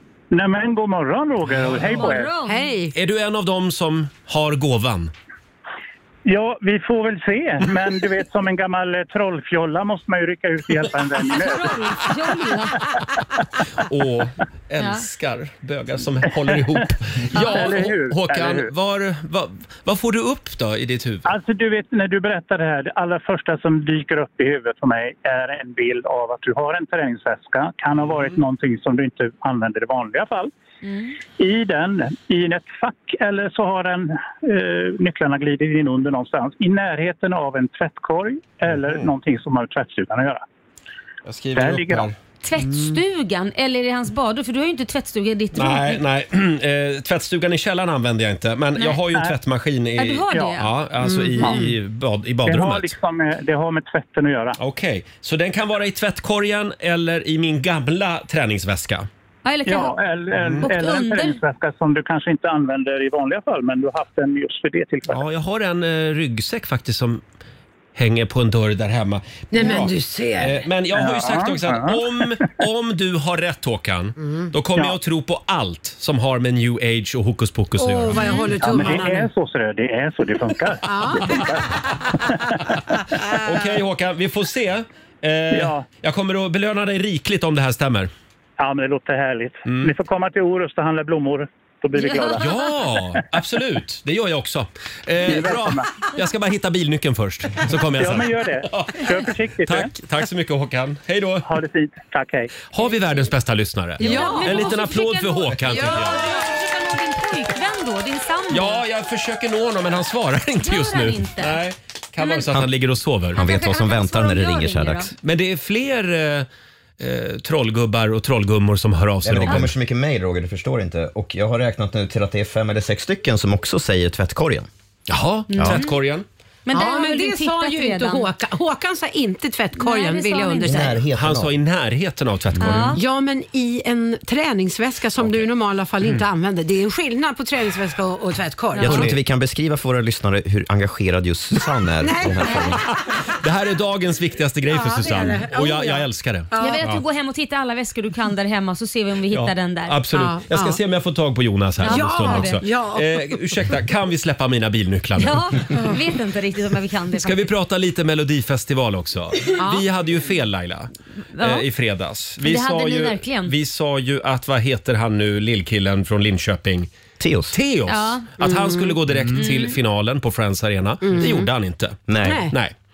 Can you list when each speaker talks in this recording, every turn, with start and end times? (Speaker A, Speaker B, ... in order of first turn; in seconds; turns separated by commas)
Speaker A: 0.3-2.3, Speaker B: 1.9-2.7, Speaker C: 2.4-2.9, Speaker D: 2.9-5.1, Speaker A: 6.2-11.8, Speaker B: 11.3-12.9, Speaker D: 13.8-21.3, Speaker A: 16.4-16.8, Speaker B: 17.3-17.7, Speaker A: 17.4-18.7, Speaker A: 21.2-30.5, Speaker B: 30.8-31.1, Speaker A: 31.4-40.4, Speaker D: 38.7-39.1, Speaker D: 41.2-42.1, Speaker A: 41.5-42.1, Speaker B: 42.4-46.0, Speaker D: 45.5-52.9, Speaker B: 50.0-50.7, Speaker C: 51.0-51.7, Speaker A: 52.5-54.6, Speaker D: 54.6-59.1, Speaker B: 59.4-59.9, Speaker A: 59.7-65.2, Speaker D: 60.4-60.7, Speaker B: 60.6-61.4, Speaker D: 65.1-67.2, Speaker D: 67.9-78.4, Speaker C: 69.5-70.6, Speaker A: 70.9-72.5, Speaker C: 77.8-79.3, Speaker B: 78.2-78.5, Speaker A: 78.6-82.6, Speaker C: 80.8-81.8, Speaker D: 83.3-88.1, Speaker A: 85.5-85.8, Speaker A: 88.6-93.2, Speaker D: 89.6-89.9, Speaker B: 92.0-92.4, Speaker D: 92.3-101.4, Speaker A: 95.2-95.9, Speaker A: 97.9-99.9, Speaker A: 101.4-102.5, Speaker D: 102.7-106.2, Speaker C: 104.0-104.8, Speaker B: 104.0-108.8, Speaker C: 105.7-106.3, Speaker D: 108.5-113.4, Speaker B: 110.6-111.6, Speaker B: 112.2-112.5, Speaker E: 113.3-115.1, Speaker B: 113.3-115.1, Speaker D: 115.2-116.5, Speaker D: 117.0-119.7, Speaker E: 119.2-124.7, Speaker D: 125.1-126.2, Speaker B: 125.5-125.9, Speaker B: 126.7-128.3, Speaker C: 126.7-130.9, Speaker B: 129.8-131.0, Speaker E: 130.6-131.5, Speaker D: 131.2-133.0, Speaker E: 132.5-132.9, Speaker B: 132.6-133.0, Speaker C: 132.9-139.1, Speaker B: 138.7-139.1, Speaker E: 138.8-142.8, Speaker C: 142.0-143.0, Speaker D: 143.4-146.5, Speaker C: 144.7-146.9, Speaker B: 146.6-150.0, Speaker D: 149.3-155.6, Speaker C: 150.1-150.8, Speaker B: 151.8-152.6, Speaker C: 151.8-153.4, Speaker B: 155.2-157.5, Speaker D: 157.2-166.9, Speaker C: 159.6-159.8, Speaker B: 161.3-161.6, Speaker B: 162.4-163.5, Speaker E: 167.2-167.6, Speaker D: 167.5-172.7, Speaker B: 167.9-168.3, Speaker C: 168.4-169.0, Speaker B: 169.3-169.7, Speaker C: 171.0-171.5, Speaker E: 172.1-172.5, Speaker C: 172.2-172.5